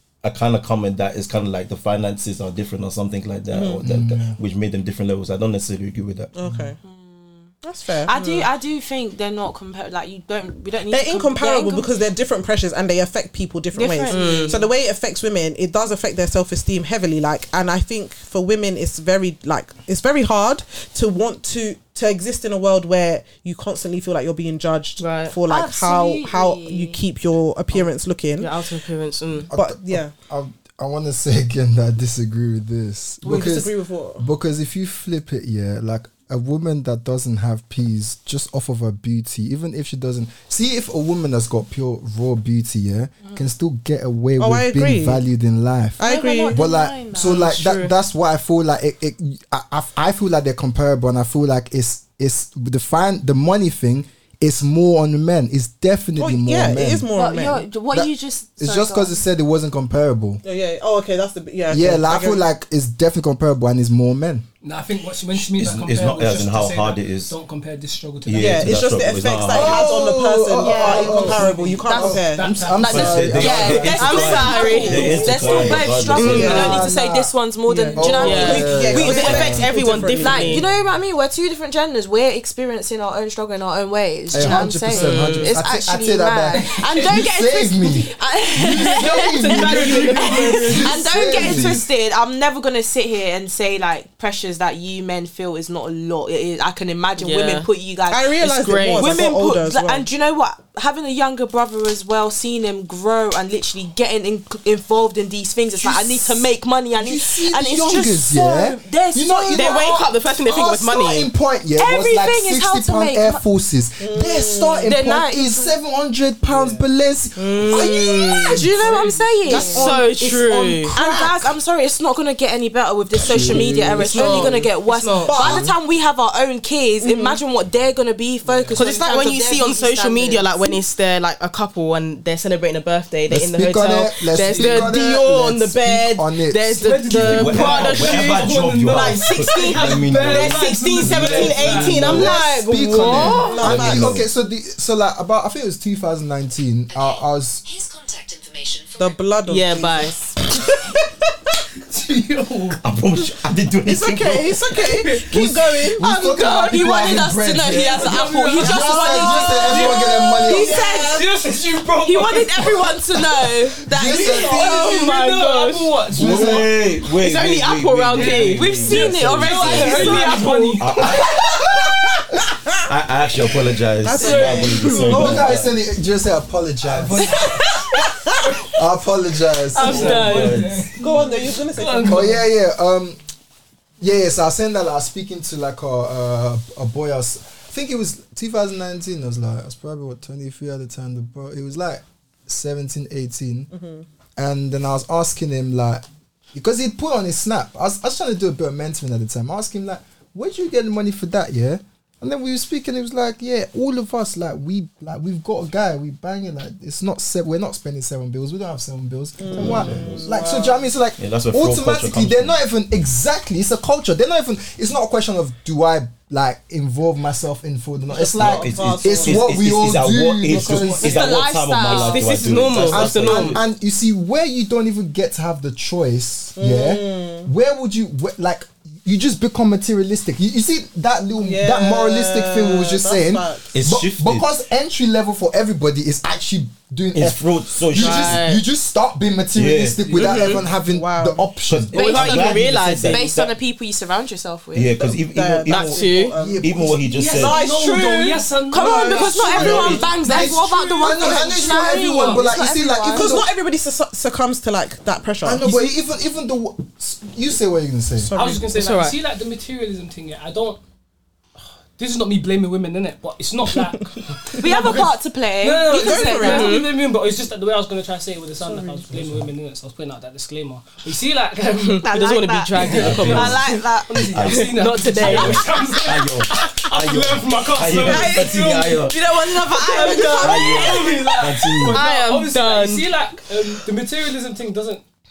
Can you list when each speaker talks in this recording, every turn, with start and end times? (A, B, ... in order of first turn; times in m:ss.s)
0:00.2-0:06.3 A
0:03.5-0:03.8 B
0:03.8-0:04.4 C
0:06.4-0:06.8 B
0:06.4-0:06.7 C
0:06.8-0:07.5 D
0:07.6-0:08.2 B
0:08.1-0:11.9 D
0:08.2-0:08.4 E
0:10.9-0:28.6 B
0:13.7-0:14.7 D
0:14.0-0:14.6 E
0:25.0-0:25.4 E
0:25.5-0:27.0 D
0:28.4-0:29.5 E
0:29.5-0:57.1 C
0:29.5-0:30.1 B
0:33.2-0:34.3 B
0:44.4-0:45.2 B
0:46.0-0:46.6 B
0:46.0-0:47.5 D
0:47.3-0:47.8 E
0:56.2-0:57.7 B
0:57.1-0:59.2 D
0:57.9-1:00.4 C
1:00.4-1:02.4 B
1:01.7-1:04.4 C
1:04.6-1:08.8 F
1:05.4-1:07.4 A
1:08.2-1:09.8 A
1:08.3-1:12.5 B
1:09.5-1:17.3 C
1:10.6-1:50.0 D
1:11.2-1:13.8 F
1:12.7-1:16.8 A
1:13.9-1:16.8 E
1:14.5-1:16.9 B
1:17.7-1:20.6 B
1:17.9-1:19.7 C
1:18.2-1:20.6 E
1:24.3-1:31.8 C
1:24.4-1:25.5 E
1:28.8-1:31.0 F
1:30.1-1:30.5 E
1:30.2-1:30.7 B
1:37.2-1:37.7 E
1:38.1-1:40.1 B
1:38.4-1:39.2 E
1:45.8-1:59.0 C
1:49.5-1:51.3 E
1:51.8-1:53.4 D
1:54.0-1:54.9 B
1:54.8-1:55.8 D
1:56.5-1:56.9 F
1:57.4-1:58.7 E
1:57.8-2:10.7 D
1:58.8-1:59.3 F
1:59.4-2:01.5 B
1:59.5-2:01.0 E
2:03.2-2:04.5 C
2:03.5-2:05.7 E
2:03.6-2:05.7 B
2:07.0-2:07.4 B
2:08.4-2:08.8 F
2:08.8-2:23.8 E
2:13.3-2:17.2 C
2:14.4-2:14.9 F
2:16.8-2:22.4 F
2:17.1-2:22.0 A
2:21.1-2:27.8 C
2:23.1-2:24.2 B
2:23.6-2:24.3 A
2:29.0-2:30.5 B
2:29.5-2:30.2 E
2:31.9-2:32.8 F
2:32.8-2:34.7 A
2:33.8-2:36.5 B
2:34.8-2:35.6 F
2:35.3-2:40.8 C
2:36.1-2:41.3 D
2:37.7-2:43.0 F
2:38.6-2:41.3 B
2:42.0-2:45.0 D
2:43.9-2:44.8 C
2:43.9-2:46.7 F
2:44.4-2:46.0 E
2:46.1-2:46.7 C
2:46.1-2:51.6 A
2:47.1-2:48.7 E
2:48.1-2:51.2 F
2:48.6-2:50.8 D
2:51.4-2:51.9 C
2:52.9-2:55.8 A
2:54.0-2:55.6 B
2:54.1-2:55.3 F
2:55.0-2:57.6 C
2:56.8-2:58.5 F
2:58.6-3:00.3 C
2:59.8-3:00.8 E
2:59.8-3:02.5 F
2:59.8-3:00.9 A
3:01.0-3:02.4 B
3:02.1-3:03.2 C
3:04.0-3:13.7 C
3:13.7-3:14.1 B
3:14.4-3:41.2 C
3:29.4-3:30.9 B
3:29.6-3:30.3 A
3:31.2-3:32.6 A
3:38.1-3:39.7 B
3:38.3-3:43.6 A
3:40.5-3:40.8 B
3:40.7-3:41.2 F
3:41.0-3:42.3 D
3:41.9-3:43.6 E
3:42.8-4:01.9 C
3:46.6-3:47.5 B
3:51.4-3:53.8 B
3:53.7-3:54.5 A
3:57.2-3:58.5 A
3:57.9-3:58.6 E
3:59.6-4:00.1 A
4:00.2-4:00.6 E
4:00.2-4:01.5 B
4:01.7-4:03.5 A
4:01.9-4:03.2 E
4:01.9-4:04.9 D
4:04.7-4:06.1 A
4:05.0-4:11.8 B
4:05.7-4:06.4 E
4:06.4-4:07.0 C
4:06.6-4:07.6 A
4:07.1-4:12.5 F
4:08.7-4:13.3 D
4:09.4-4:13.5 C
4:09.6-4:10.0 A
4:13.1-4:15.9 B
4:15.4-4:18.3 C
4:18.2-4:18.7 B
4:18.4-4:20.8 F
4:18.6-4:19.2 E
4:22.0-4:32.1 F
4:23.8-4:24.0 B
4:24.5-4:25.0 B
4:24.6-4:26.7 D
4:25.9-4:26.8 B
4:26.4-4:26.9 E
4:28.6-4:29.1 B
4:29.1-4:29.5 C
4:31.8-4:33.9 E
4:32.0-4:34.3 D
4:32.8-4:45.0 F
4:32.9-4:33.7 A
4:34.2-4:39.2 A
4:34.4-4:35.9 E
4:38.1-4:39.0 B
4:38.9-4:41.0 D
4:39.7-4:40.8 B
4:40.0-4:41.0 E
4:40.3-4:42.0 A
4:41.8-4:43.1 E